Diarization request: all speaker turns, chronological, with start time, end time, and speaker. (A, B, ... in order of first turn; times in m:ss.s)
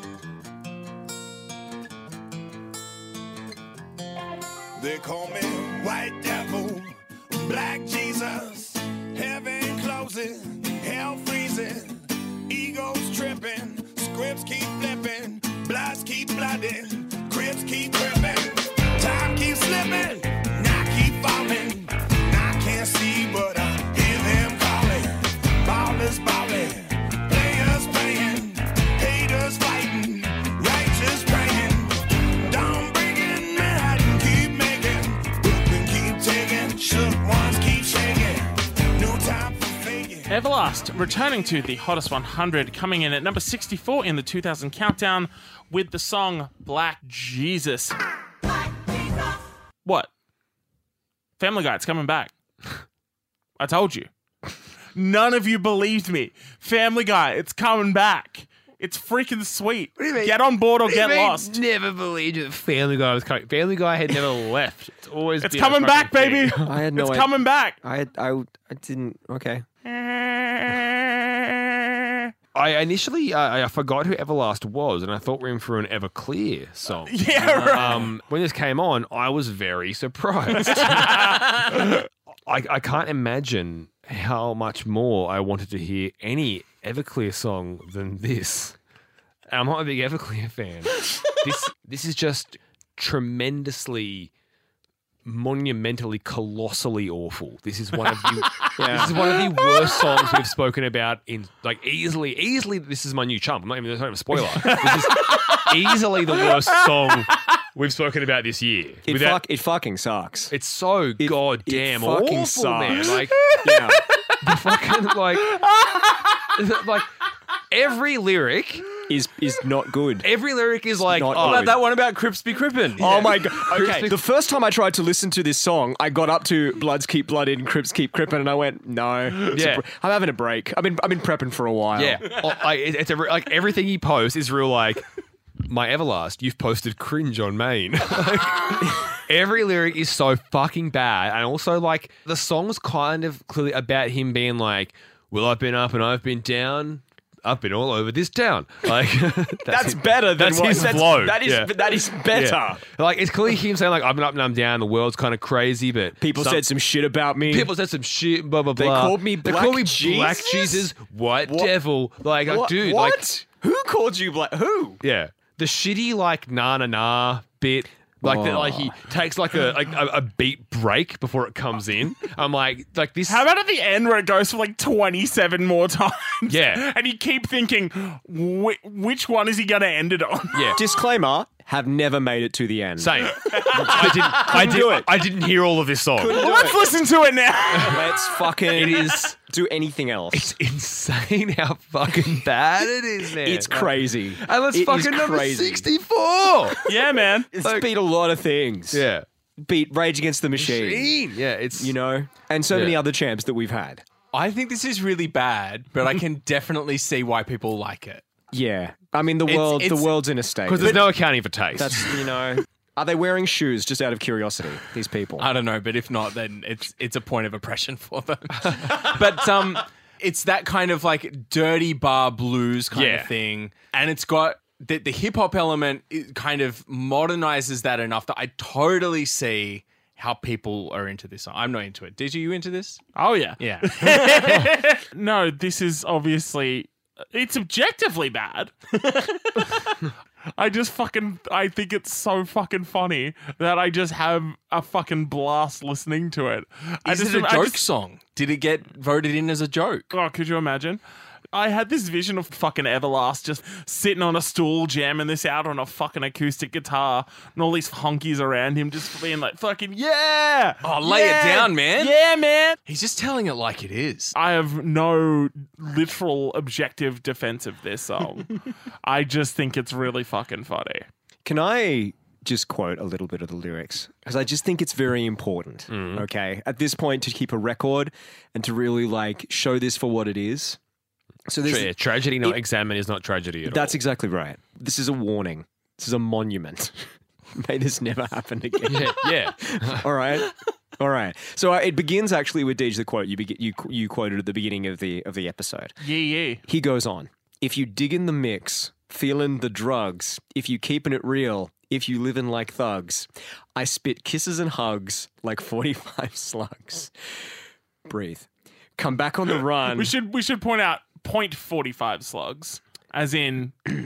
0:04.8-0:40.4 A
0:40.3-0:48.0 B
0:49.8-0:50.1 B
0:51.4-0:52.3 B
0:53.6-0:54.1 B
0:55.0-1:01.6 B
1:00.0-1:06.7 C
1:05.4-1:07.8 B
1:06.6-1:09.7 D
1:09.8-1:12.3 B
1:12.6-1:28.8 C
1:17.1-1:18.1 B
1:17.4-1:17.8 E
1:20.6-1:21.9 B
1:29.5-1:34.3 C
1:35.2-1:49.4 C
1:38.8-1:39.4 D
1:44.6-1:47.4 B
1:49.1-1:50.5 D
1:50.5-1:53.4 C
1:51.2-1:54.0 D
1:53.1-1:54.3 B
1:54.4-1:55.7 C
1:55.5-1:56.5 B
1:56.4-1:57.1 C
1:57.7-1:58.9 C
1:59.1-2:00.3 D
2:00.2-2:01.8 C
2:01.0-2:01.8 D
2:01.4-2:03.4 E
2:02.6-2:04.2 C
2:03.0-2:12.4 D
2:09.4-2:09.8 C
2:12.0-2:15.0 C
2:15.6-2:36.7 C
2:29.6-2:32.8 D
2:36.2-2:37.7 D
2:37.4-2:43.3 C
2:38.8-2:40.9 D
2:41.4-2:41.7 D
2:42.5-2:45.0 D
2:45.0-2:53.4 C
2:48.2-2:49.0 D
2:53.3-3:00.8 B
2:56.5-2:56.9 C
3:00.5-3:00.8 C
3:00.8-3:05.2 D
3:03.0-3:06.6 C
3:03.3-3:04.7 B
3:06.2-3:06.8 D
3:06.3-3:09.0 B
3:07.8-3:10.6 D
3:08.7-3:09.3 C
3:10.3-3:16.8 C
3:13.4-3:15.9 D
3:16.8-3:17.5 B
3:17.5-3:19.1 D
3:17.6-3:17.9 C
3:18.9-3:19.3 C
3:19.6-3:21.1 D
3:20.6-3:22.0 C
3:21.8-3:24.0 D
3:22.7-3:23.0 C
3:24.3-3:28.2 E
3:28.5-3:31.2 D
3:29.5-3:30.2 E
3:30.7-3:32.3 C
3:31.8-3:35.5 D
3:35.4-3:53.0 E
3:42.9-3:43.3 C
3:53.2-3:58.7 B
3:53.6-3:54.7 E
3:59.0-3:59.5 E
3:59.6-4:07.8 B
4:07.0-4:10.1 E
4:10.1-4:11.0 B
4:11.5-4:22.8 B
4:20.8-4:22.2 E
4:22.9-4:24.4 E
4:24.4-4:31.1 B
4:31.4-4:40.8 D
4:35.9-4:36.3 C
4:41.5-4:42.6 D
4:41.6-4:44.0 C
4:43.7-4:56.0 D
4:48.8-4:50.1 C
4:56.0-4:56.6 B
4:56.7-5:07.1 D
5:08.1-5:10.1 D
5:09.9-5:14.0 B